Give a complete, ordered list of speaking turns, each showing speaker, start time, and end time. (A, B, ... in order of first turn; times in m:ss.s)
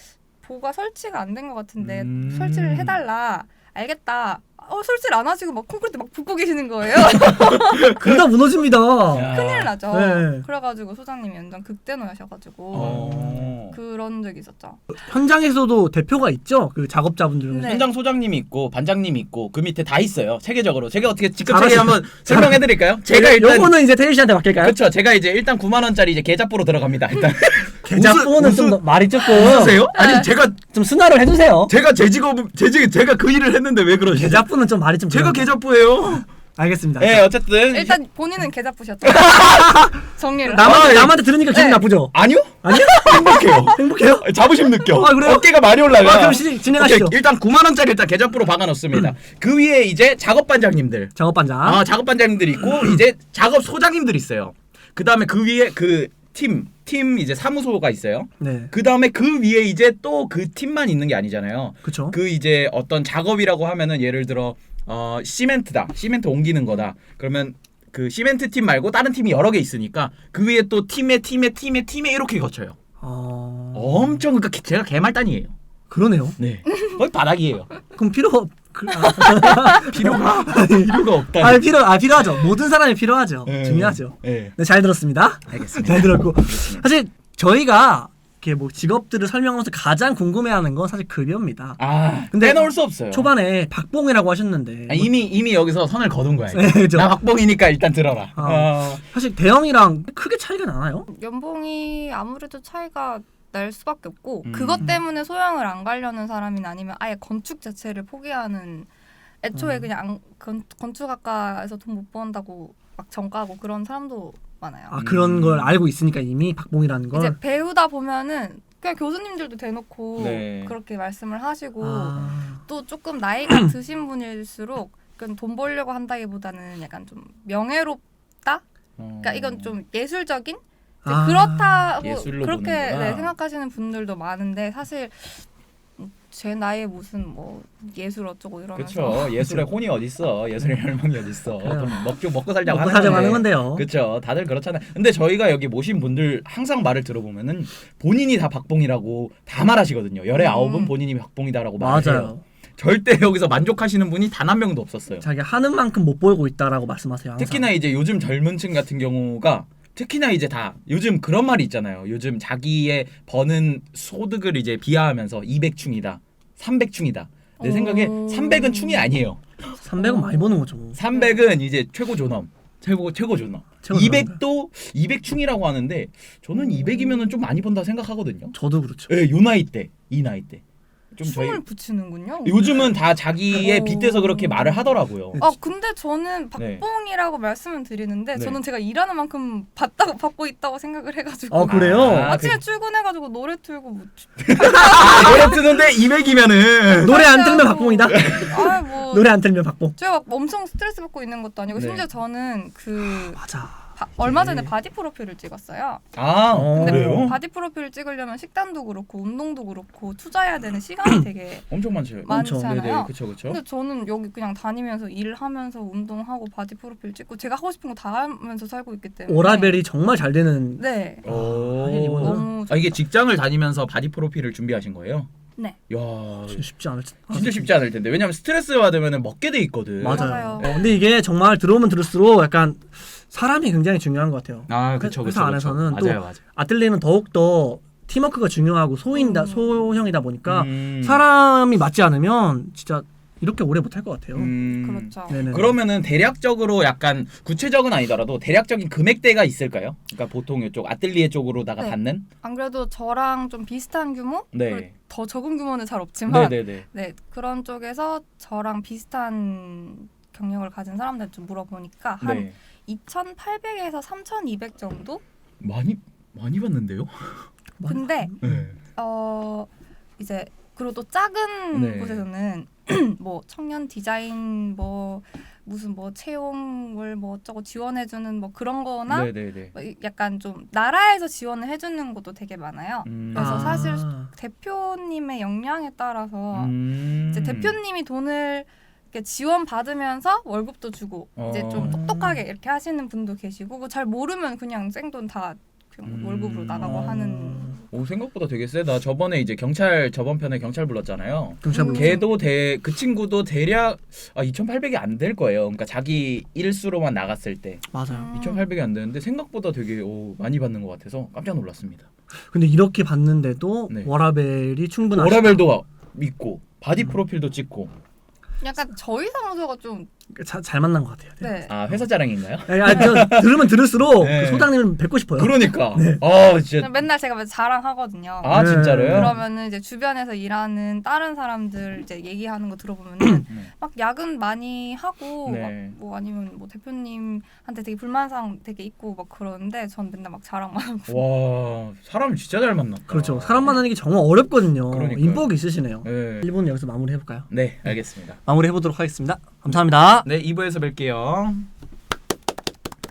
0:00.4-0:08.0 A
0:01.8-0:03.0 B
0:07.3-0:08.2 B
0:07.9-0:09.3 C
0:09.1-0:09.7 B
0:09.3-0:14.8 A
0:09.9-0:10.4 C
0:12.7-0:13.5 C
0:12.7-0:13.8 B
0:14.9-0:17.8 C
0:17.5-0:17.9 A
0:17.5-0:23.8 B
0:21.5-0:24.8 C
0:24.5-0:30.6 B
0:27.8-0:29.9 C
0:29.9-0:30.3 A
0:30.7-0:31.7 C
0:31.7-0:34.4 B
0:34.1-0:35.5 C
0:35.1-0:36.3 B
0:36.6-0:37.2 C
0:37.0-0:38.0 B
0:37.7-0:41.8 A
0:39.0-0:39.9 B
0:40.4-0:47.2 C
0:40.6-0:41.2 B
0:42.1-1:12.8 B
0:43.2-0:43.7 A
0:51.2-0:51.8 C
0:58.4-0:58.7 C
1:01.8-1:02.2 C
1:13.0-1:14.2 C
1:13.7-1:15.5 B
1:15.9-1:16.4 C
1:16.4-1:17.7 B
1:18.0-1:31.8 C
1:19.4-1:21.7 B
1:23.4-1:24.5 B
1:25.5-1:26.8 B
1:31.8-1:33.3 B
1:32.3-1:35.1 C
1:34.9-1:39.0 B
1:36.5-1:37.1 C
1:38.4-1:41.1 C
1:41.1-1:48.9 A
1:44.4-1:44.9 B
1:49.4-1:55.0 A
1:49.5-1:49.9 C
1:54.9-1:57.4 C
1:55.0-1:55.7 B
1:57.1-2:08.6 A
2:00.2-2:00.7 B
2:01.8-2:02.6 C
2:09.0-2:09.8 B
2:09.2-2:15.4 A
2:11.0-2:11.9 C
2:12.0-2:13.3 B
2:16.0-2:19.4 A
2:18.8-2:35.2 B
2:19.3-2:19.7 C
2:21.6-2:22.0 C
2:22.6-2:23.8 C
2:23.0-2:23.3 A
2:30.4-2:30.9 A
2:31.8-2:32.4 C
2:35.2-2:37.7 C
2:37.4-2:49.8 B
2:47.6-2:49.1 A
2:49.8-2:51.0 C
2:50.0-2:50.6 A
2:50.9-2:58.5 B
2:53.8-2:54.4 C
2:58.5-2:59.1 C
2:59.1-3:00.6 B
3:01.1-3:01.6 B
3:01.2-3:02.9 A
3:02.4-3:05.4 B
3:03.5-3:04.8 A
3:05.4-3:15.6 A
3:06.6-3:06.8 B
3:11.5-3:12.4 C
3:11.7-3:12.6 B
3:14.5-3:17.3 B
3:17.0-3:18.6 C
3:17.0-3:19.3 A
3:18.1-3:18.5 B
3:19.1-3:19.9 C
3:20.0-3:23.4 A
3:21.7-3:22.0 B
3:23.4-3:24.7 C
3:24.0-3:26.0 A
3:26.1-3:27.4 B
3:26.5-3:27.3 C
3:26.8-3:31.6 A
3:31.7-3:33.6 B
3:32.2-3:39.8 A
3:32.3-3:32.7 C
3:39.3-3:42.5 C
3:40.8-3:41.3 A
3:41.2-3:45.3 B
3:42.2-3:42.9 A
3:45.9-3:46.6 B
3:46.5-3:47.7 C
3:47.3-3:50.3 B
3:50.0-4:04.5 C
3:50.1-3:50.7 A
3:54.7-3:56.4 B
3:59.1-3:59.8 A
4:00.4-4:01.2 B
4:04.3-4:12.2 B
4:04.6-4:05.4 A
4:05.3-4:05.7 C
4:11.8-4:25.2 A
4:14.5-4:14.9 B
4:16.3-4:16.8 B
4:22.2-4:22.5 B
4:25.6-4:27.5 B
4:27.8-4:28.6 C
4:27.9-4:28.4 A
4:28.4-4:28.8 B
4:28.9-4:46.7 A
4:31.7-4:32.2 B
4:39.1-4:39.7 B
4:43.0-4:43.8 B
4:43.3-4:44.3 C
4:46.5-4:47.8 B
4:47.3-4:57.8 A
4:51.4-4:52.3 B
4:51.8-4:52.1 C
4:56.0-4:57.2 B
4:56.8-4:57.7 C
4:57.9-5:12.1 B
5:01.6-5:02.2 C
5:01.7-5:02.3 A
5:07.9-5:08.3 C
5:08.1-5:08.6 A
5:12.5-5:15.6 C
5:15.1-5:17.9 B
5:18.6-5:20.1 A
5:20.3-5:21.5 C
5:21.4-5:21.8 A
5:21.7-5:24.8 B
5:22.7-5:26.2 C
5:25.4-5:27.0 B
5:26.8-5:41.2 A
5:28.4-5:29.4 B
5:28.5-5:29.4 C
5:35.4-5:35.9 B
5:41.1-5:43.8 B
5:43.1-5:47.5 C
5:44.9-5:45.5 B
5:46.0-5:46.4 B
5:47.5-5:48.4 B
5:48.4-5:50.2 C
5:50.2-5:51.7 B